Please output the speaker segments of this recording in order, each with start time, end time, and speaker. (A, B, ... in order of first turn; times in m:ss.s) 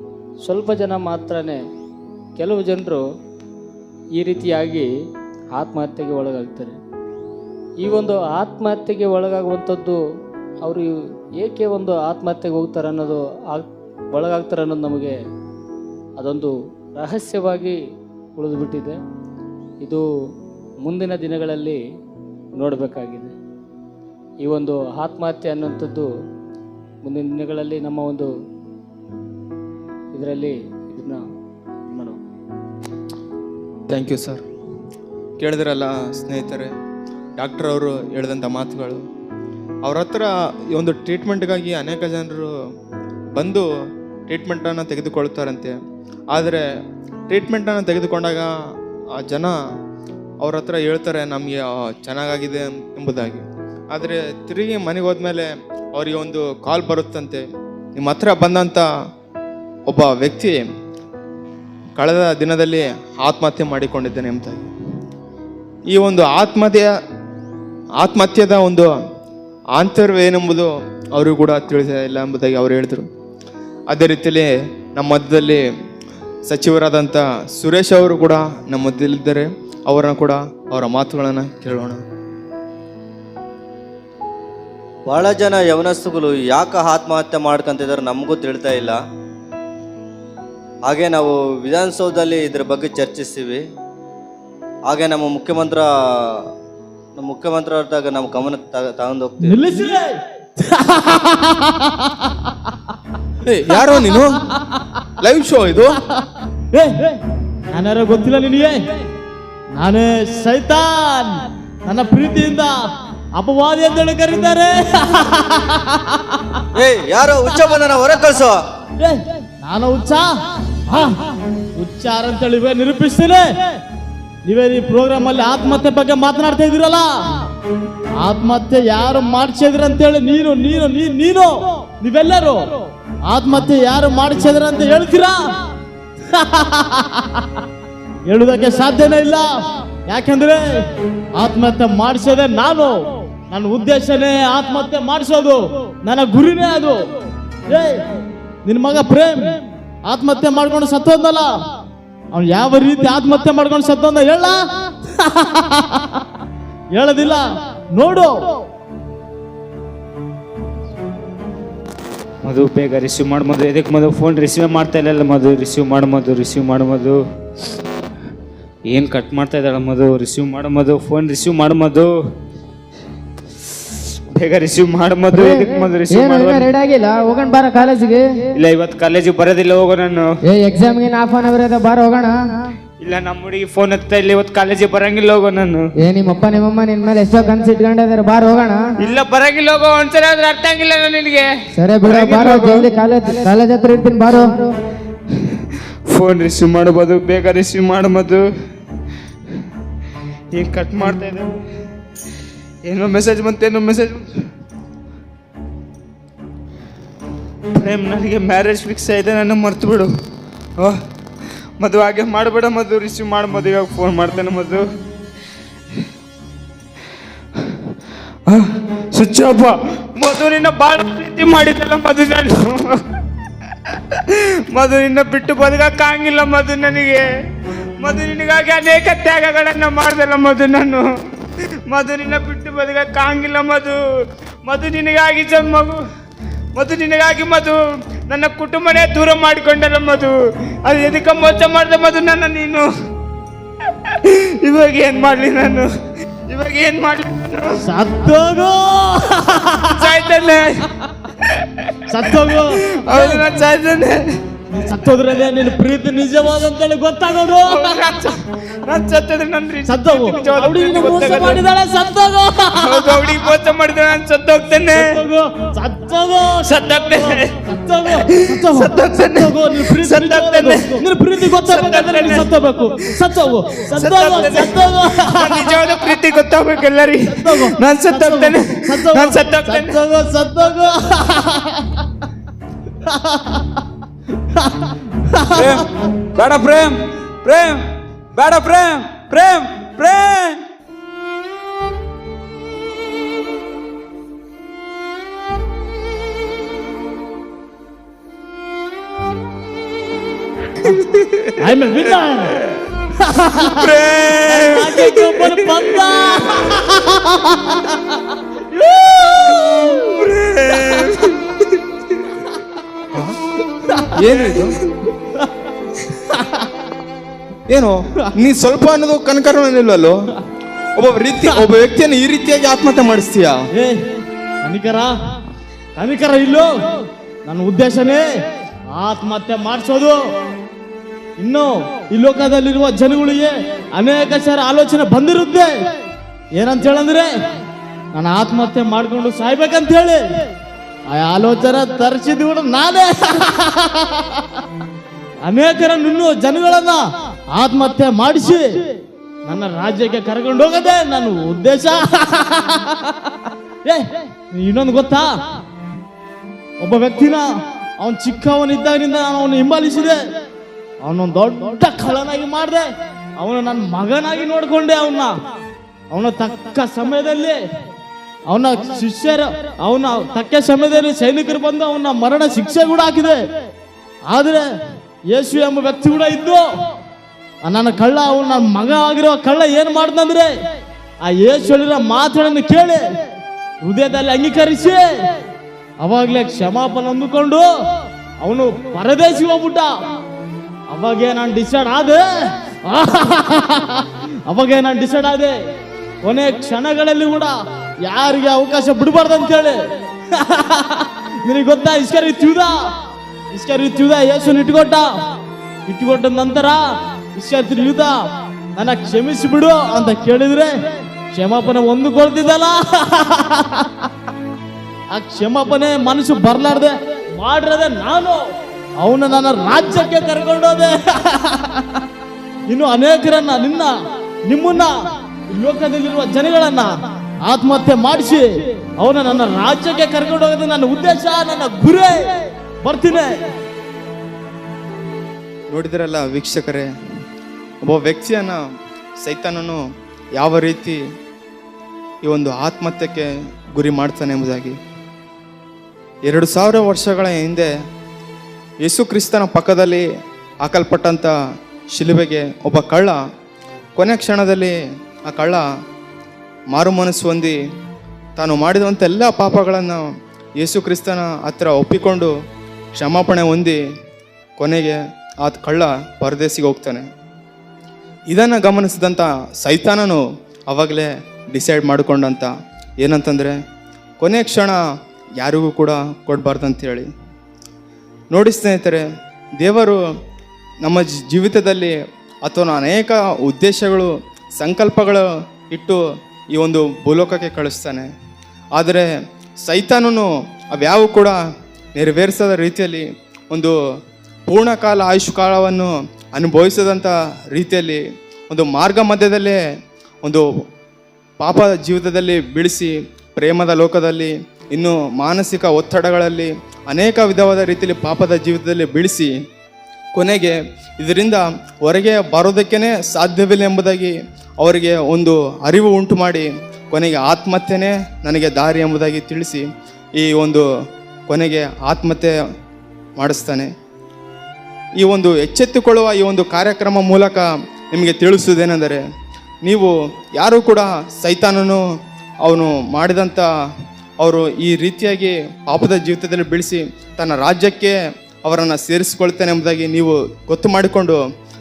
0:00.4-0:01.6 A
0:02.4-0:03.0 A
0:04.1-0:04.9 A
0:05.5-0:06.8 A
0:07.8-0:10.0 A
0:10.6-0:15.2 A
0:16.2-0:17.8 A
0:18.4-0:19.0 A
0:20.8-0:21.8 A
0:22.6-0:23.3 A
0:24.4-0:26.1 A
0:27.0-0:28.3 A
0:30.1-0:31.2 A
0:31.9-0:32.2 A
0:33.9-0:34.4 B
0:35.4-0:36.7 B
0:37.4-0:39.0 B
0:39.8-0:42.5 B
0:43.3-0:43.7 B
0:44.3-0:45.8 B
0:46.3-0:46.6 B
0:47.3-0:48.5 B
0:49.2-0:49.6 B
0:50.4-0:58.8 B
0:59.9-1:00.6 B
1:02.0-1:04.7 B
1:05.9-1:06.9 B
1:08.0-1:08.9 B
1:09.7-1:13.1 B
1:13.9-1:15.6 B
1:16.5-1:22.0 B
1:25.1-1:29.0 C
1:30.8-1:33.6 C
1:34.9-1:35.8 C
1:37.2-1:39.6 C
1:39.4-1:42.3 D
1:43.4-1:44.4 B
1:45.2-1:46.0 B
1:46.7-1:48.8 D
1:49.7-1:52.7 D
1:53.3-1:56.6 D
1:56.8-1:58.6 C
1:59.0-2:00.3 D
2:00.9-2:03.8 D
2:04.4-2:07.1 D
2:08.2-2:15.5 D
2:16.3-2:17.4 D
2:18.2-2:19.5 D
2:20.1-2:27.1 D
2:27.7-2:31.5 D
2:32.3-2:36.2 D
2:36.9-2:38.5 D
2:42.4-2:47.2 E
2:48.9-2:52.1 E
2:54.3-2:56.7 E
2:55.3-2:58.2 F
2:58.6-3:00.3 E
3:00.5-3:02.4 F
3:03.0-3:05.9 E
3:06.1-3:08.8 F
3:09.0-3:13.4 E
3:11.8-3:14.6 F
3:16.1-3:18.4 E
3:20.5-3:21.5 E
3:22.8-3:24.3 E
3:27.7-3:30.1 E
3:31.8-3:34.8 E
3:38.5-3:43.0 E
3:44.1-3:47.2 E
3:48.0-3:51.0 E
3:51.9-3:54.0 E
3:54.6-3:56.0 E
3:56.7-4:02.9 E
4:04.2-4:05.9 E
4:06.5-4:07.8 E
4:07.8-4:10.1 D
4:10.0-4:10.9 E
4:11.4-4:14.3 E
4:12.1-4:13.4 D
4:14.7-4:18.0 D
4:17.5-4:21.6 E
4:19.8-4:23.5 D
4:22.7-4:25.2 E
4:24.9-4:36.2 D
4:26.6-4:40.0 E
4:37.3-4:41.8 D
4:43.1-4:43.7 D
4:45.3-4:45.6 D
4:45.6-4:45.8 E
4:46.4-4:50.6 G
5:01.6-5:02.6 D
5:03.2-5:03.9 D
5:03.7-5:06.4 E
5:04.4-5:07.8 D
5:09.0-5:09.6 E
5:09.5-5:09.9 D
5:10.2-5:11.2 E
5:13.1-5:13.4 B
5:14.1-5:14.8 B
5:17.7-5:20.3 B
5:21.0-5:23.6 B
5:23.7-5:25.1 D
5:26.0-5:26.7 D
5:27.4-5:28.3 D
5:28.9-5:30.2 D
5:31.4-5:35.7 D
5:36.5-5:37.5 D
5:38.1-5:40.4 D
5:41.1-5:44.5 D
5:45.4-5:48.8 D
5:49.4-5:53.3 D
5:53.8-5:55.4 D
5:56.8-5:57.4 D
5:58.0-6:00.3 D
6:01.0-6:05.4 D
6:06.1-6:07.6 D
6:08.5-6:13.4 D
6:14.2-6:14.7 D
6:15.3-6:16.7 D
6:17.6-6:20.5 D
6:21.2-6:23.0 D
6:23.8-6:25.3 D
6:26.0-6:27.7 D
6:28.4-6:29.9 D
6:30.9-6:35.5 D
6:36.2-6:42.9 D
6:43.5-6:45.3 D
6:45.9-6:48.2 D
6:48.7-6:54.0 D
6:55.1-6:58.4 D
6:59.0-7:01.9 D
7:02.7-7:03.9 D
7:04.4-7:04.9 D
7:05.5-7:13.5 D
7:15.7-7:16.9 B
7:17.8-7:18.6 B
7:19.2-7:19.8 B
7:20.4-7:21.0 B
7:22.2-7:24.8 B
7:26.2-7:27.7 B
7:28.8-7:30.0 B
7:30.6-7:31.3 B
7:31.9-7:33.2 B
7:34.0-7:34.8 B
7:35.3-7:35.6 B
7:36.7-7:37.6 B
7:38.4-7:40.0 B
7:40.6-7:42.3 B
7:42.9-7:43.8 B
7:44.6-7:47.1 B
7:48.3-7:53.6 B
7:54.2-7:54.8 B
7:55.4-7:57.1 B
7:58.3-7:59.0 B
7:59.6-8:00.0 B
8:00.8-8:08.1 B
8:08.8-8:09.1 B
8:09.6-8:11.4 B
8:11.9-8:13.7 B
8:14.5-8:19.6 B
8:21.4-8:29.3 B
8:30.1-8:40.6 B
8:41.3-8:42.3 B
8:43.2-8:43.7 B
8:45.0-8:49.0 B
8:49.6-8:51.8 B
8:52.4-8:53.5 B
8:54.2-9:01.2 B